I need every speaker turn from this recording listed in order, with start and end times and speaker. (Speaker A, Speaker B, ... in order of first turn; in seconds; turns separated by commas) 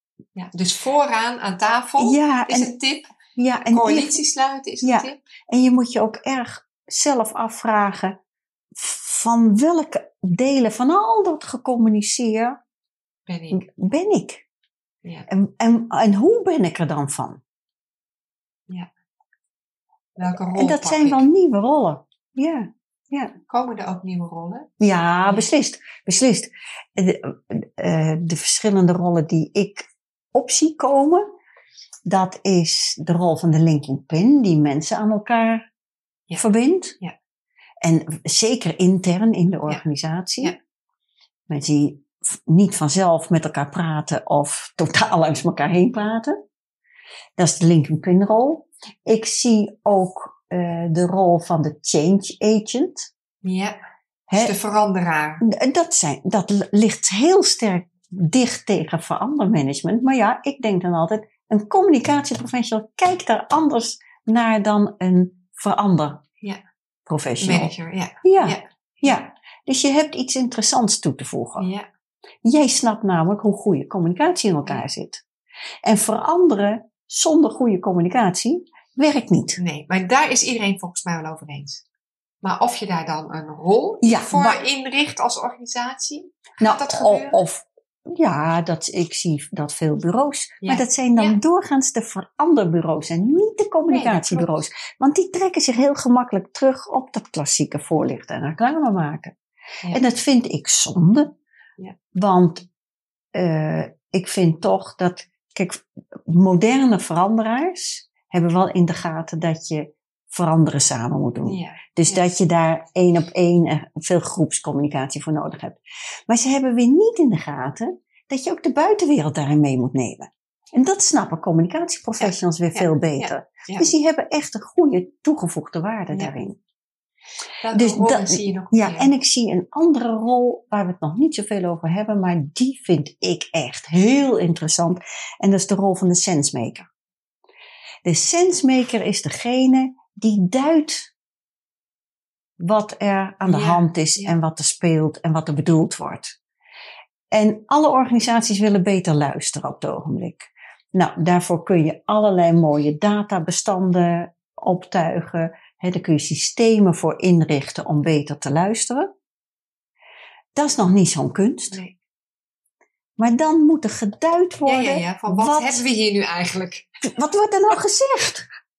Speaker A: 0.3-3.1, Speaker B: 2.0-2.7, Speaker B: 3.4-4.2, Speaker A: 3.6-5.2, Speaker B: 4.8-8.2, Speaker B: 8.7-12.6, Speaker A: 13.3-13.6, Speaker B: 13.5-14.4, Speaker B: 15.3-17.4, Speaker A: 20.2-21.3, Speaker B: 20.2-23.3, Speaker A: 23.5-24.7, Speaker B: 24.8-31.2, Speaker A: 25.2-25.5, Speaker B: 32.0-35.6, Speaker B: 36.4-37.0, Speaker B: 37.8-40.5, Speaker B: 41.5-46.4, Speaker B: 47.4-53.1, Speaker A: 53.4-53.7, Speaker A: 54.3-55.4, Speaker B: 55.4-66.2, Speaker B: 67.1-71.7, Speaker A: 67.4-69.2, Speaker A: 71.6-71.8, Speaker B: 72.4-75.2, Speaker B: 75.8-79.6, Speaker A: 79.6-81.8, Speaker A: 82.4-87.4, Speaker B: 84.0-84.6, Speaker B: 86.6-99.3, Speaker A: 90.6-91.4, Speaker A: 93.9-94.6, Speaker B: 99.9-101.3, Speaker B: 102.1-102.7, Speaker B: 103.3-126.6, Speaker A: 111.4-112.2, Speaker A: 122.2-123.9, Speaker A: 126.1-126.3, Speaker A: 127.6-129.1, Speaker B: 127.7-136.9, Speaker B: 138.0-141.1, Speaker B: 142.6-146.3, Speaker A: 143.4-144.3, Speaker B: 147.3-159.1, Speaker B: 160.6-161.8, Speaker B: 163.2-165.8, Speaker A: 164.6-166.9, Speaker B: 167.0-168.4